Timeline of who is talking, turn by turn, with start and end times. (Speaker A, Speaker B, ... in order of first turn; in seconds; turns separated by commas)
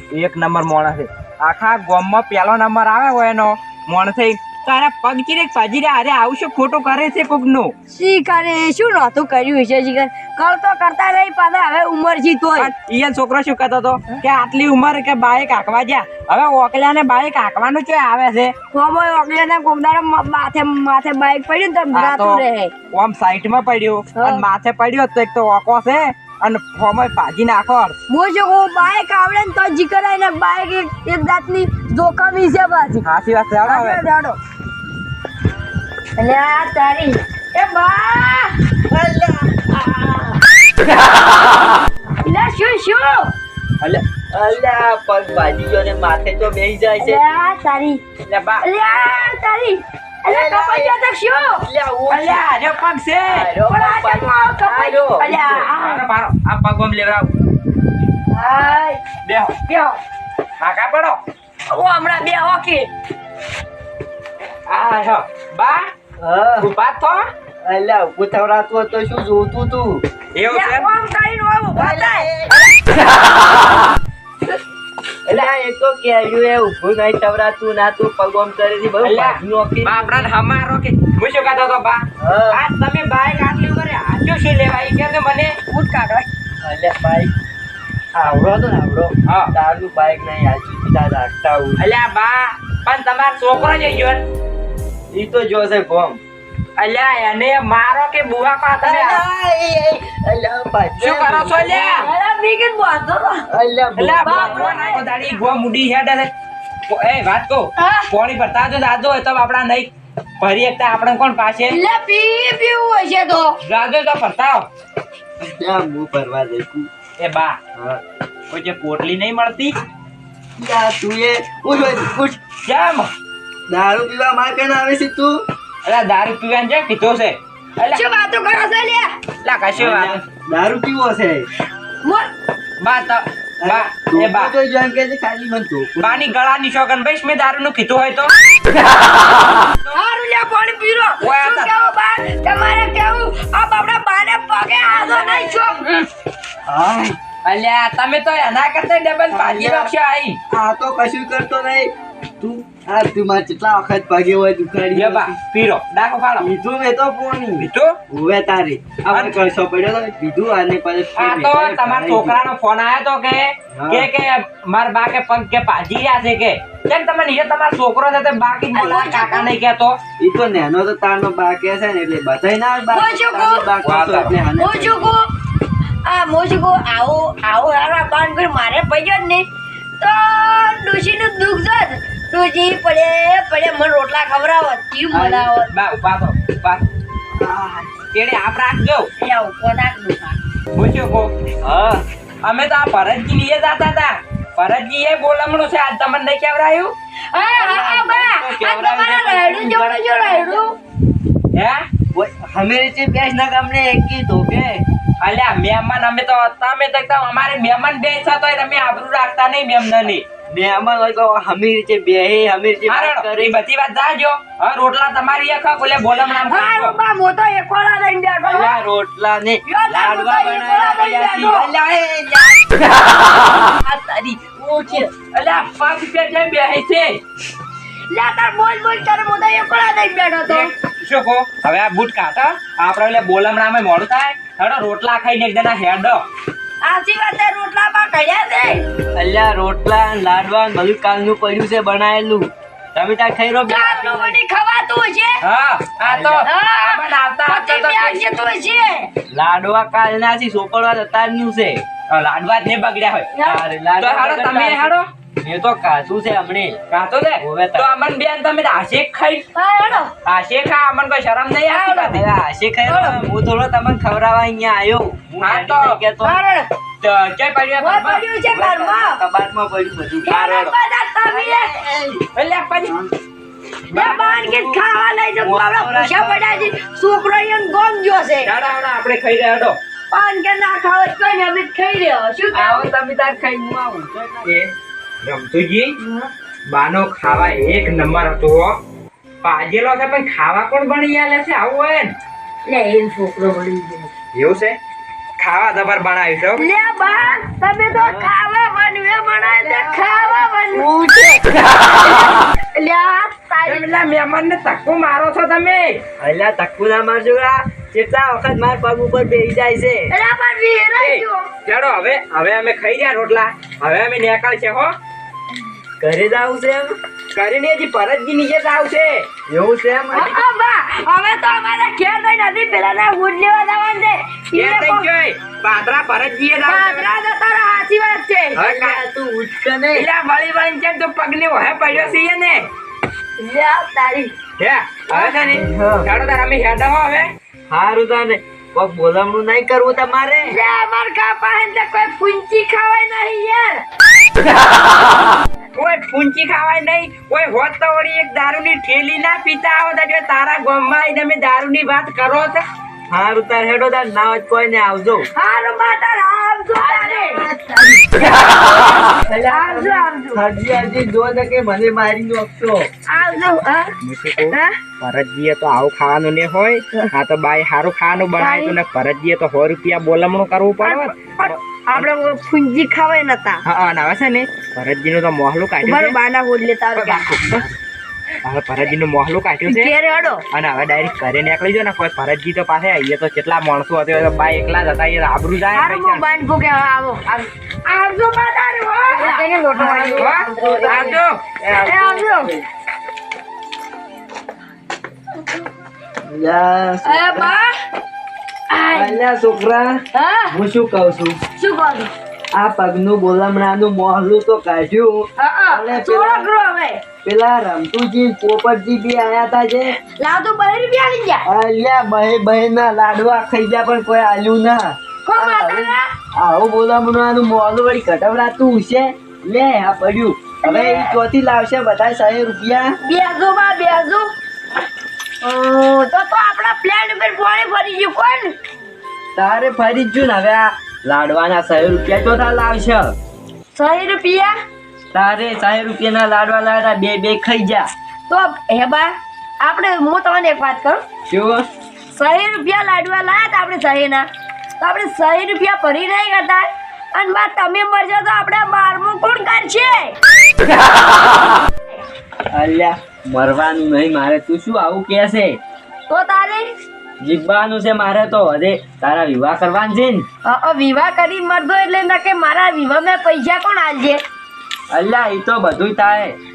Speaker A: 0.1-7.7, Speaker B: 7.9-12.7, Speaker A: 12.6-18.5, Speaker B: 18.7-22.7, Speaker A: 21.9-27.9, Speaker B: 24.2-24.4, Speaker B: 28.1-33.1, Speaker A: 33.0-34.0, Speaker B: 33.6-34.4, Speaker B: 36.2-38.6, Speaker C: 38.9-40.4, Speaker B: 42.2-43.3, Speaker C: 43.8-47.2, Speaker B: 47.0-48.0, Speaker A: 48.3-48.6, Speaker B: 48.6-51.6, Speaker C: 50.3-52.4, Speaker A: 52.1-53.5, Speaker C: 53.3-55.7, Speaker B: 53.7-56.0, Speaker A: 55.5-57.3, Speaker B: 58.3-59.0, Speaker A: 59.2-59.5, Speaker B: 59.7-60.0, Speaker A: 60.6-61.2, Speaker B: 61.7-62.9, Speaker A: 64.7-65.9, Speaker C: 66.2-66.7, Speaker A: 66.6-67.3, Speaker C: 67.6-70.0, Speaker A: 70.3-70.9, Speaker B: 70.5-72.3, Speaker C: 71.8-72.9, Speaker C: 75.3-80.3, Speaker A: 79.0-85.6, Speaker C: 82.2-82.6, Speaker B: 85.7-86.3, Speaker C: 86.6-87.3, Speaker C: 88.1-91.8, Speaker A: 89.2-89.5, Speaker A: 91.8-94.2, Speaker C: 95.1-96.2, Speaker A: 96.8-99.2, Speaker C: 98.8-101.8, Speaker A: 101.0-102.1, Speaker B: 101.5-103.5, Speaker C: 103.5-104.8, Speaker A: 104.0-106.3, Speaker B: 104.2-105.1, Speaker A: 106.9-111.8, Speaker B: 107.8-108.1, Speaker B: 111.7-113.6, Speaker A: 113.6-114.7, Speaker C: 115.4-116.9, Speaker A: 117.2-117.6, Speaker C: 117.8-118.0, Speaker A: 118.5-119.8, Speaker C: 120.6-122.4, Speaker A: 122.6-123.1, Speaker C: 123.7-125.4, Speaker A: 125.8-128.0, Speaker B: 127.9-129.2, Speaker A: 129.4-130.2, Speaker C: 129.8-131.5, Speaker B: 132.0-132.3, Speaker A: 132.8-134.5, Speaker C: 133.6-136.3, Speaker A: 136.0-138.3, Speaker B: 139.9-145.9, Speaker A: 141.2-141.7, Speaker C: 146.7-147.2, Speaker A: 147.4-150.4, Speaker C: 149.3-149.9, Speaker C: 150.5-155.4, Speaker A: 154.9-156.5, Speaker C: 156.4-162.4, Speaker A: 157.6-158.0, Speaker A: 159.1-159.4, Speaker A: 161.2-170.0, Speaker C: 163.7-164.1, Speaker B: 168.7-169.5, Speaker C: 170.2-175.2, Speaker B: 172.9-173.7, Speaker A: 173.8-174.4, Speaker B: 174.6-175.3, Speaker B: 176.0-179.5, Speaker B: 180.0-185.7, Speaker C: 185.1-185.5, Speaker A: 185.7-186.8, Speaker C: 187.4-188.0, Speaker A: 188.1-189.1, Speaker B: 189.2-190.4, Speaker A: 190.7-191.3, Speaker C: 191.6-192.0, Speaker A: 192.4-196.9, Speaker B: 197.3-200.8, Speaker C: 197.4-200.6, Speaker A: 201.5-201.8, Speaker C: 202.1-204.8, Speaker A: 205.2-210.2, Speaker C: 210.5-213.6, Speaker A: 212.9-217.0, Speaker B: 216.4-218.8, Speaker C: 218.4-222.8, Speaker B: 219.7-221.7, Speaker B: 223.9-225.1, Speaker A: 225.2-227.2, Speaker B: 228.1-230.7, Speaker A: 230.5-236.2, Speaker B: 236.8-238.8, Speaker C: 239.1-244.4, Speaker B: 243.7-245.4, Speaker A: 245.4-248.2, Speaker C: 246.0-246.5, Speaker B: 246.4-249.1, Speaker C: 249.3-251.8, Speaker A: 252.1-255.1, Speaker C: 253.4-256.8, Speaker A: 256.9-259.4, Speaker C: 257.4-257.9, Speaker B: 259.5-260.1, Speaker A: 260.2-262.2, Speaker B: 261.7-262.2, Speaker C: 262.1-266.4, Speaker B: 262.9-263.2, Speaker A: 265.4-266.0, Speaker B: 266.2-266.7, Speaker A: 267.0-268.3, Speaker B: 267.8-269.2, Speaker C: 268.5-270.4, Speaker B: 270.2-271.7, Speaker A: 270.3-270.8, Speaker C: 271.3-272.3, Speaker A: 272.4-273.0, Speaker C: 273.9-274.8, Speaker B: 273.9-278.5, Speaker C: 275.4-276.7, Speaker A: 278.4-279.8, Speaker B: 280.1-282.9, Speaker C: 282.5-284.7, Speaker A: 284.4-286.0, Speaker B: 286.0-286.3, Speaker A: 286.7-288.8, Speaker A: 289.4-292.1, Speaker B: 292.7-294.1, Speaker A: 294.3-294.8, Speaker A: 295.4-296.7, Speaker B: 296.6-300.9, Speaker C: 297.9-298.3, Speaker C: 299.5-301.4, Speaker B: 301.9-303.9, Speaker A: 303.7-306.0, Speaker C: 306.2-310.1, Speaker B: 310.1-311.5, Speaker A: 311.0-314.9, Speaker C: 316.0-316.9, Speaker A: 317.3-319.3, Speaker C: 319.5-320.4, Speaker B: 320.1-325.1, Speaker A: 324.6-327.1, Speaker B: 326.7-328.6, Speaker C: 328.6-330.1, Speaker A: 328.6-329.0, Speaker A: 329.9-332.7, Speaker B: 333.4-334.3, Speaker A: 334.6-337.3, Speaker B: 335.1-335.4, Speaker C: 335.5-336.1, Speaker C: 337.7-340.6, Speaker B: 340.5-343.8, Speaker A: 345.8-352.6, Speaker C: 353.1-355.3, Speaker B: 355.3-357.4, Speaker C: 356.8-362.9, Speaker B: 359.5-360.4, Speaker B: 363.1-363.9, Speaker A: 364.0-372.1, Speaker B: 364.5-364.8, Speaker B: 368.4-368.8, Speaker B: 370.8-373.6, Speaker A: 373.6-376.2, Speaker B: 375.8-377.6, Speaker A: 376.9-377.8, Speaker A: 378.4-379.9, Speaker B: 379.7-380.4, Speaker A: 380.5-386.2, Speaker B: 385.7-391.2, Speaker C: 389.2-392.6, Speaker A: 390.2-391.6, Speaker B: 391.8-392.5, Speaker C: 396.2-397.5, Speaker B: 397.1-397.7, Speaker B: 398.7-399.2, Speaker C: 398.9-401.4, Speaker B: 400.1-400.6, Speaker B: 401.6-402.1, Speaker C: 402.5-406.5, Speaker B: 405.4-407.0, Speaker C: 407.2-409.9, Speaker B: 410.1-411.4, Speaker C: 411.4-423.0, Speaker B: 415.2-416.1, Speaker B: 420.6-421.2, Speaker B: 423.0-424.3, Speaker B: 425.4-428.6, Speaker C: 429.4-433.2, Speaker B: 433.7-434.5, Speaker C: 435.1-437.9, Speaker B: 438.3-441.0, Speaker C: 441.3-441.7, Speaker B: 442.1-444.3, Speaker B: 444.8-450.1, Speaker C: 452.5-455.6, Speaker B: 456.1-456.7, Speaker C: 457.2-460.3, Speaker B: 460.4-464.2, Speaker C: 464.9-466.4